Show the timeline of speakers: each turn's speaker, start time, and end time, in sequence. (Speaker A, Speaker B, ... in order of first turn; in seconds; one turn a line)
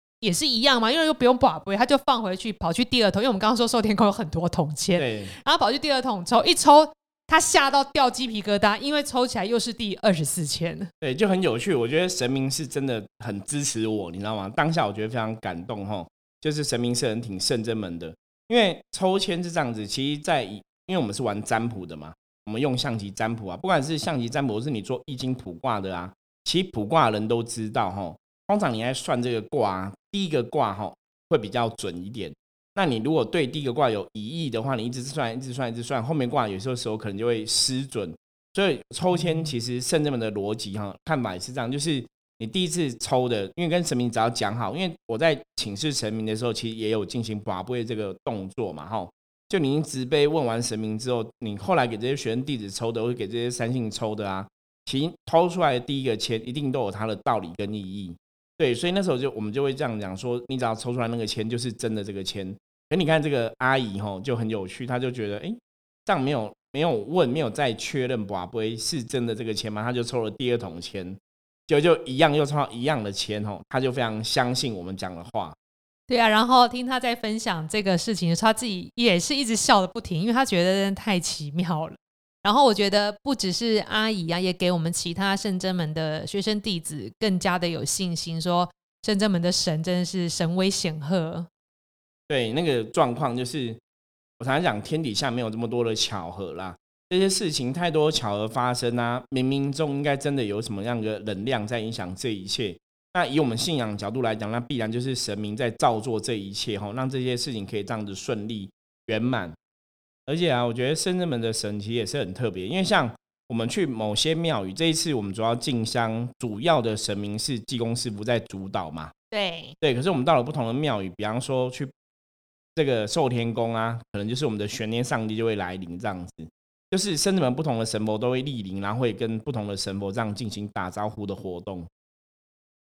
Speaker A: 0.2-10.9
Speaker B: 5.0-5.3
Speaker B: 11.0-75.5
Speaker A: 76.1-91.5
Speaker B: 92.3-93.8
Speaker B: 94.4-109.5
Speaker B: 110.3-119.1
Speaker A: 119.3-119.7
Speaker B: 119.8-121.9
Speaker B: 122.7-131.9